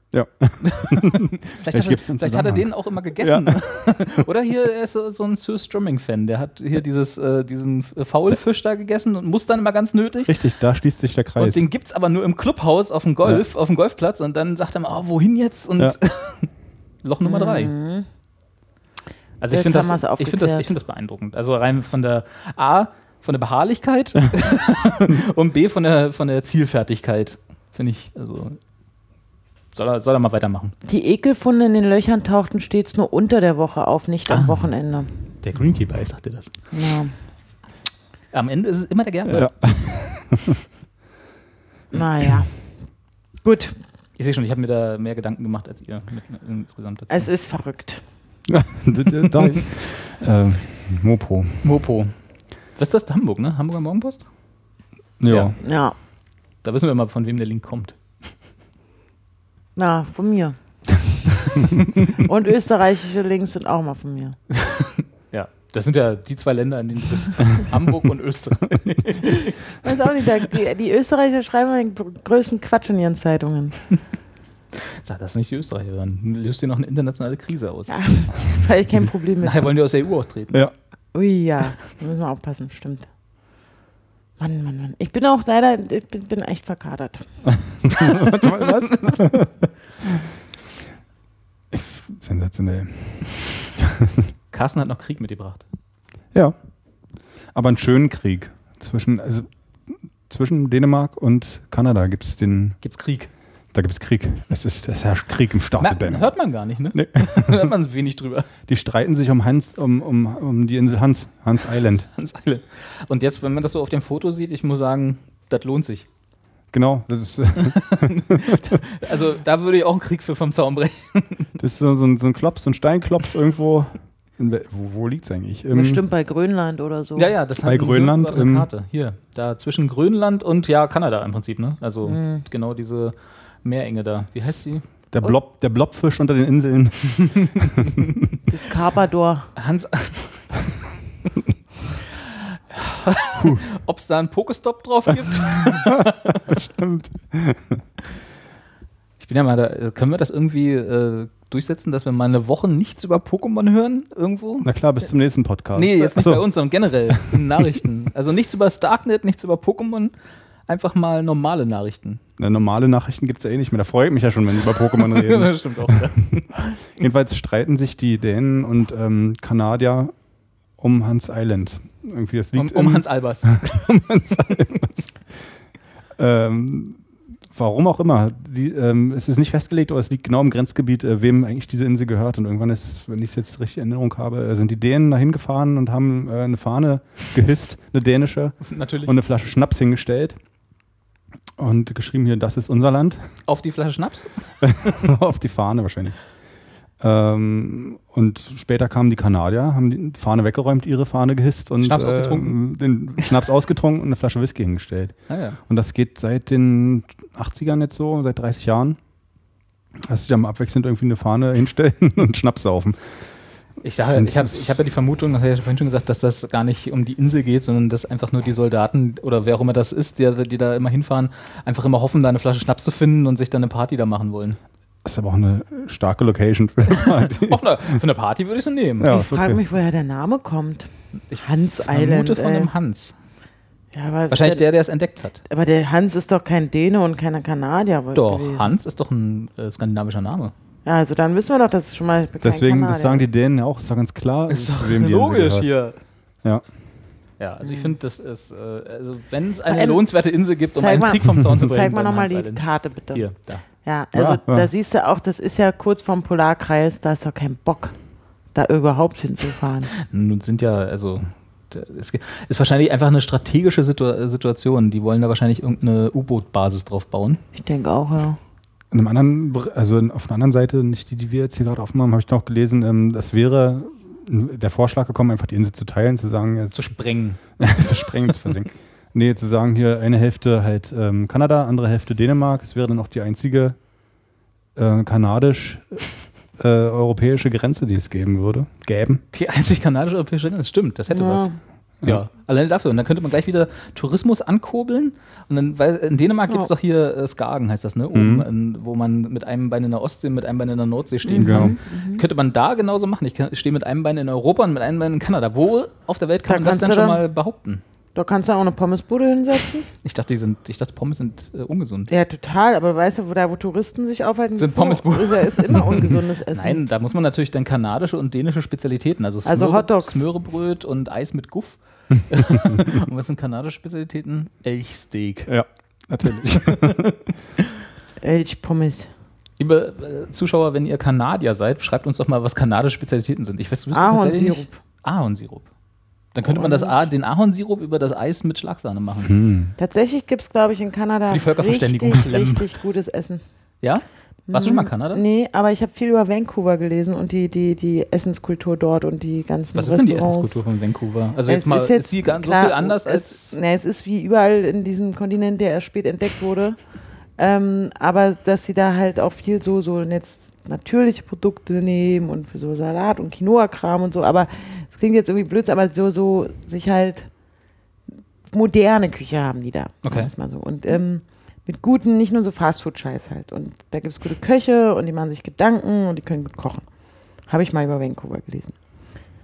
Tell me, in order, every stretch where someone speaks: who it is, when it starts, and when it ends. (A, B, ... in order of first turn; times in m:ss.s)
0:00.1-0:02.7 A
0:00.6-0:10.4 B
0:03.2-0:03.6 A
0:10.3-0:11.6 A
0:11.4-0:16.5 B
0:17.0-0:17.7 B
0:17.2-0:18.1 C
0:19.4-0:28.6 B
0:19.5-0:20.7 C
0:29.7-0:30.8 B
0:30.8-0:35.1 C
0:34.3-0:34.6 B
0:35.4-0:36.6 B
0:36.7-0:37.1 C
0:38.3-0:39.7 B
0:39.3-0:40.5 A
0:41.9-0:42.7 C
0:43.4-0:43.8 C
0:44.2-0:47.3 B
0:47.1-0:48.0 C
0:48.5-0:51.6 A
0:49.3-0:49.6 B
0:51.6-0:52.1 B
0:52.8-0:54.3 B
0:55.2-0:55.6 A
0:55.3-0:55.5 B
0:55.6-0:56.0 C
0:56.6-0:58.0 B
0:59.8-1:01.0 C
1:02.2-1:04.4 C
1:04.6-1:09.8 B
1:09.2-1:13.8 C
1:14.7-1:17.9 B
1:17.9-1:19.7 C
1:19.4-1:20.6 B
1:21.1-1:23.1 C
1:24.4-1:27.3 C
1:27.8-1:29.5 A
1:28.0-1:29.5 B
1:31.7-1:34.3 A
1:34.5-1:35.6 B
1:37.5-1:42.8 A
1:42.8-1:43.3 B
1:43.7-1:46.3 A
1:45.8-1:48.5 B
1:46.9-1:47.7 A
1:48.7-1:52.1 A
1:52.1-1:56.1 B
1:56.7-1:58.8 A
1:57.6-2:01.5 B
2:01.6-2:06.0 A
2:05.7-2:07.3 C
2:07.2-2:14.8 B
2:07.6-2:08.7 A
2:12.0-2:12.4 C
2:15.1-2:17.8 A
2:18.5-2:19.5 C
2:19.6-2:20.8 B
2:22.7-2:26.6 B
2:26.5-2:27.8 A
2:29.2-2:34.7 B
2:34.6-2:36.5 A
2:35.7-2:40.1 B
2:37.2-2:37.6 A
2:40.7-2:42.2 B
2:42.4-2:46.2 A
2:44.9-2:46.8 B
2:47.0-2:50.1 A
2:50.8-2:54.9 A
2:52.6-2:55.0 B
2:56.2-3:10.4 A
3:08.7-3:09.2 B
3:11.6-3:13.3 A
3:13.5-3:14.7 B
3:14.6-3:16.2 A
3:17.0-3:29.0 A
3:21.8-3:22.6 B
3:25.3-3:25.6 B
3:30.0-3:33.2 A
3:33.8-3:44.6 B
3:34.1-3:34.6 A
3:45.0-3:48.0 A
3:46.9-3:49.1 B
3:49.0-3:49.6 A
3:49.0-3:52.7 C
3:51.3-3:53.1 B
3:53.9-3:54.7 C
3:54.3-3:55.4 B
3:55.5-3:58.7 C
3:58.2-4:00.5 B
4:00.8-4:03.3 C
4:02.4-4:05.7 A
4:04.5-4:06.0 B
4:07.4-4:13.6 B
4:07.6-4:07.9 C
4:09.7-4:10.0 C
4:10.8-4:13.3 C
4:13.8-4:18.0 C
4:14.2-4:14.7 A
4:18.5-4:19.9 C
4:20.1-4:27.4 B
4:27.6-4:28.4 C
4:28.9-4:36.8 A
4:36.7-4:37.6 B
4:37.6-4:43.8 A
4:44.8-4:46.1 A
4:46.6-4:49.2 A
4:49.3-5:07.8 B
4:51.1-4:51.6 C
4:58.1-4:58.5 A
5:01.2-5:02.2 C
5:01.4-5:01.8 A
5:06.4-5:07.2 C
5:08.2-5:09.9 C
5:10.0-5:12.1 B
5:12.1-5:16.8 C
5:14.6-5:25.5 B
5:19.4-5:20.2 C
5:25.5-5:27.2 A
5:26.5-5:27.1 B
5:28.2-5:29.1 C
5:29.6-5:35.7 B
5:33.9-5:34.8 C
5:36.3-5:39.3 B
5:36.4-5:37.0 C
5:39.2-5:39.7 A
5:39.8-5:43.4 C
5:41.3-5:42.7 B
5:43.8-5:45.2 B
5:44.5-5:50.6 C
5:49.7-5:53.6 B
5:51.5-6:07.3 C
6:08.5-6:16.9 C
6:10.0-6:10.3 B
6:17.4-6:18.8 C